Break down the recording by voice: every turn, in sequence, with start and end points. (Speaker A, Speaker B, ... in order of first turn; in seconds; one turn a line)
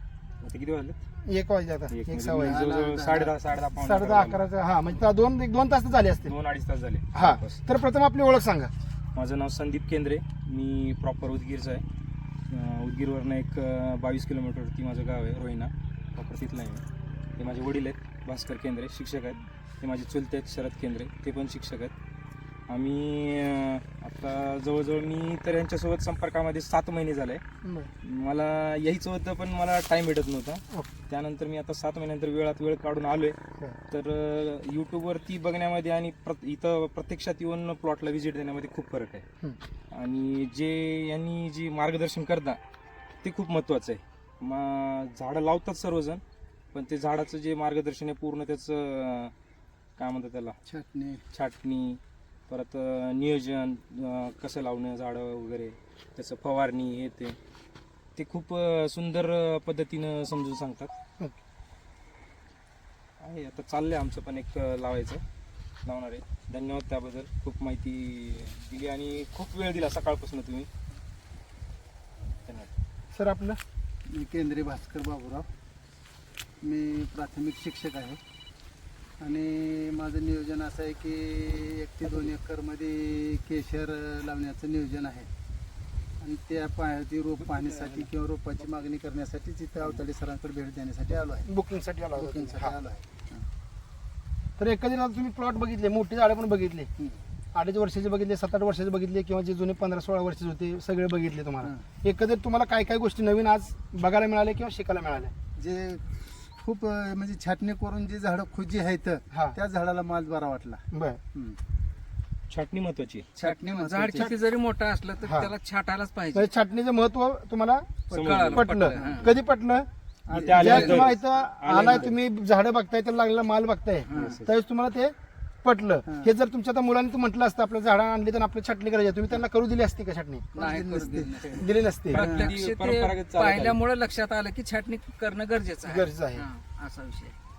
Speaker A: 0.4-1.0
Speaker B: 1.2-2.6
Speaker A: 1.9-4.4
Speaker C: 2.4-3.3
Speaker B: 3.8-6.3
Speaker A: 6.2-7.6
Speaker B: 7.1-8.7
Speaker A: 9.1-11.8
Speaker A: 12.5-16.8
Speaker A: 17.4-21.9
Speaker A: 22.7-27.4
Speaker B: 27.6-27.9
Speaker A: 28.0-33.4
Speaker A: 33.9-39.2
Speaker A: 39.9-42.6
Speaker A: 43.2-46.2
Speaker A: 46.7-49.3
Speaker A: 50.0-50.5
Speaker C: 50.6-51.2
Speaker A: 51.3-57.4
Speaker A: 58.1-60.9
Speaker A: 63.2-65.2
Speaker A: 65.8-70.7
Speaker A: 72.5-72.7
Speaker B: 73.1-73.6
Speaker C: 74.0-75.5
Speaker C: 76.6-78.2
Speaker C: 79.2-85.3
Speaker C: 86.2-91.5
Speaker A: 87.8-88.0
Speaker B: 91.5-92.7
Speaker C: 92.2-93.4
Speaker B: 94.6-96.9
Speaker B: 97.5-105.3
Speaker C: 105.6-111.6
Speaker B: 109.3-109.6
Speaker B: 110.9-111.2
Speaker A: 112.5-113.3
Speaker C: 113.3-114.3
Speaker D: 113.4-116.5
Speaker B: 115.2-115.5
Speaker B: 116.3-117.8
Speaker C: 118.1-119.3
Speaker A: 118.1-118.7
Speaker D: 118.1-119.3
Speaker B: 118.5-119.8
Speaker C: 120.3-121.2
Speaker A: 120.3-122.1
Speaker B: 120.5-130.5
Speaker D: 124.1-124.5
Speaker C: 124.1-124.4
Speaker C: 126.1-126.3
Speaker C: 130.5-131.6
Speaker D: 130.6-137.3
Speaker B: 131.5-132.2
Speaker A: 132.1-133.8
Speaker C: 132.2-132.5
Speaker B: 135.8-136.4